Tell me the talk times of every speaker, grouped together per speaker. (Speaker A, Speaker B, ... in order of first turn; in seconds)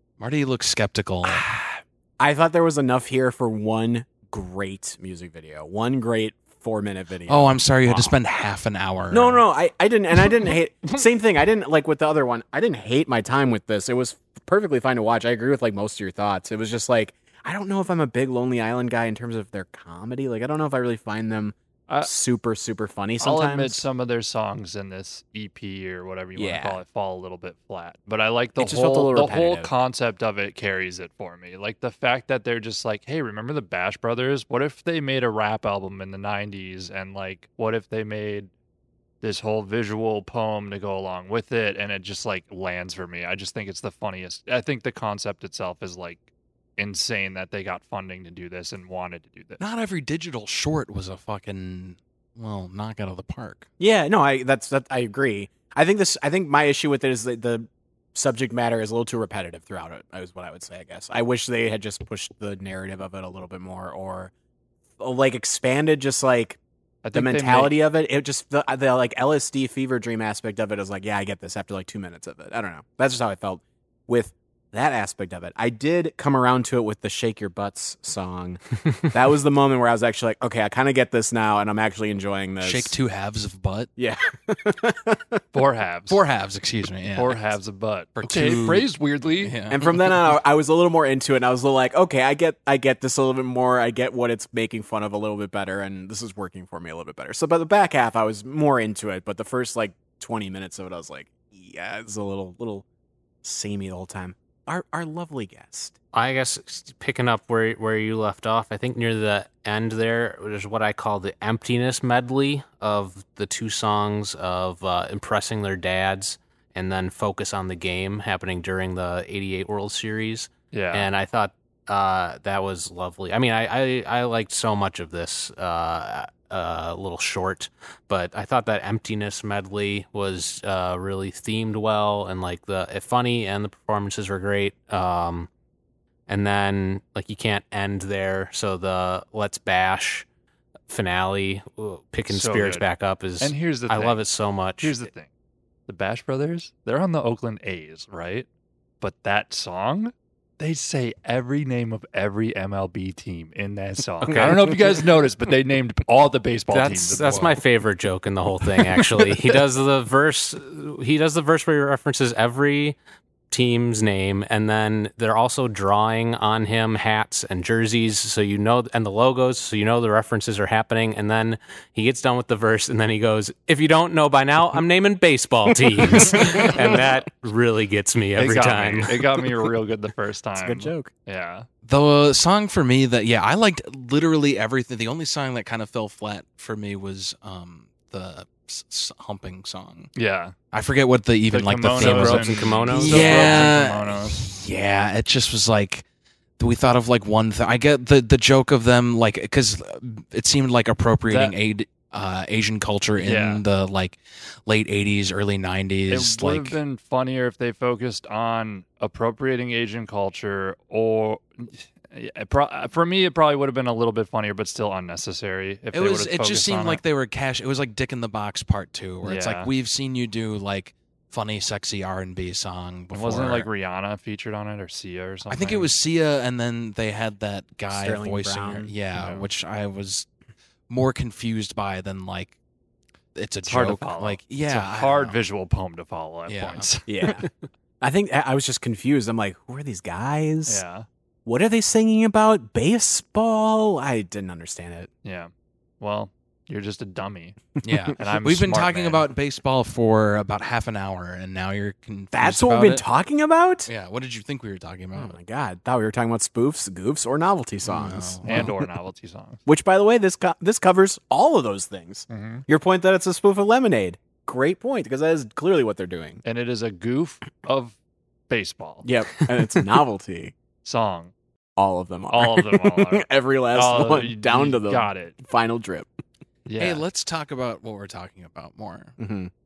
Speaker A: 0.2-1.5, 7.3-9.4, 49.6-53.7, 82.6-83.9, 86.1-87.6, 88.2-90.4, 157.2-157.6, 181.8-190.1, 190.7-196.0, 196.6-206.8, 215.9-223.7, 225.5-230.3, 230.9-232.6, 233.3-235.4, 236.5-236.9, 247.8-253.0, 253.8-255.4, 257.8-258.7, 276.8-279.1
Speaker B: 1.3-8.1, 9.1-23.8, 26.4-26.8, 28.6-29.7, 53.8-64.3, 65.0-66.6, 67.1-82.9, 84.0-85.4, 89.7-102.8, 103.4-105.9, 176.1-177.0, 180.6-181.1, 227.9-228.9, 237.1-237.5, 238.0-240.8, 241.4-245.1, 252.3-253.9, 255.1-258.7, 259.6-266.4, 269.0-270.5, 271.8-276.1, 279.2-279.5
Speaker C: 23.2-38.5, 39.2-46.2, 46.8-49.6, 67.0-67.8, 85.5-86.2, 87.1-89.5, 120.7-121.1, 142.3-142.9, 143.4-144.2, 144.8-145.3, 145.9-148.5, 149.0-157.4, 178.4-181.7, 190.1-190.5, 191.5-194.4, 201.3-201.5, 203.2-203.6, 206.1-217.0, 219.2-219.7, 223.1-225.9, 229.1-229.5, 233.6-237.4, 240.7-241.1, 245.2-247.6, 248.2-249.3, 258.4-259.6, 262.3-262.6, 266.4-267.9, 268.5-269.1, 270.8-271.3, 272.3-275.4, 276.6-277.0
Speaker D: 106.1-135.5, 136.3-140.2, 140.9-144.9, 156.7-163.0, 163.5-179.2, 192.0-193.7